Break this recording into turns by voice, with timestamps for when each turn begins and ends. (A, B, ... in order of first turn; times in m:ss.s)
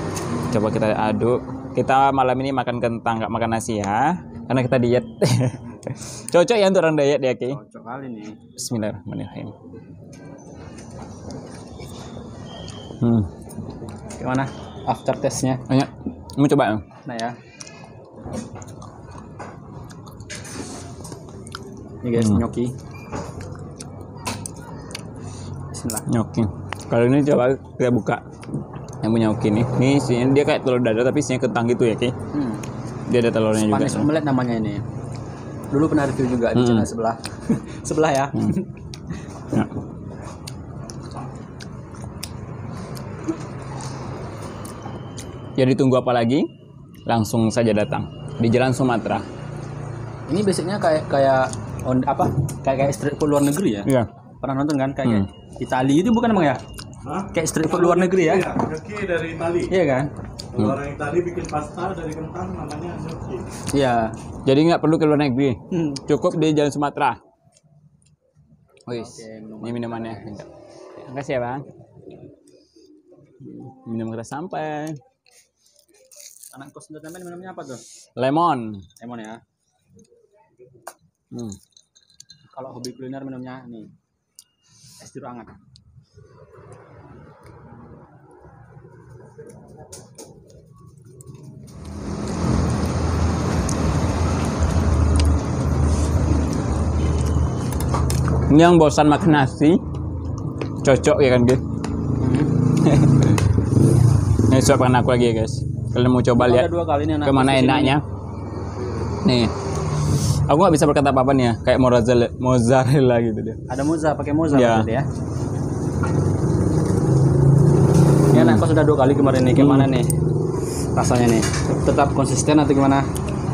0:00.5-0:07.6 A
0:07.4-0:08.4 B
0:08.6-0:09.5 A
0:13.0-0:13.3 A
0:14.2-0:15.6 B
0:15.7-0:16.8 A
0:17.0-0:17.3 B
0:22.0-0:22.7 B
0:25.7-0:26.0 B
0:26.1-0:28.2 A
0:29.0-0:32.1 A
0:32.3-0:32.6 B
0:33.1-0:34.1 A
0:33.5-0:34.8 B
0:35.7-0:38.6 B
0:36.5-0:36.8 A
0:45.6-0:46.5 A
0:47.0-0:49.3 A
0:50.3-0:53.9 B
0:54.4-0:56.6 B
0:57.0-0:59.7 C
0:57.3-0:58.5 B
0:59.7-1:00.1 B
1:00.5-1:03.5 C
1:03.7-1:04.1 B
1:04.4-1:07.2 A
1:05.7-1:06.0 B
1:08.9-1:11.7 A
1:08.9-1:10.3 B
1:13.4-1:15.0 A
1:16.5-1:17.8 B
1:18.2-1:18.8 A
1:19.0-1:19.4 B
1:21.3-1:21.6 A
1:22.5-1:23.9 B
1:25.0-1:25.5 B
1:38.5-1:39.8 A
1:40.8-1:41.6 A
1:42.2-1:42.6 B
1:42.8-1:43.4 A
1:44.5-1:46.7 A
1:46.3-1:48.0 B
1:47.2-1:48.0 A
1:49.2-1:49.5 A
1:50.5-1:53.6 A
1:53.7-1:55.1 B
1:54.5-1:54.9 A
1:58.3-1:58.6 A
1:58.3-2:00.1 B
1:59.6-1:59.9 A
2:00.9-2:03.0 B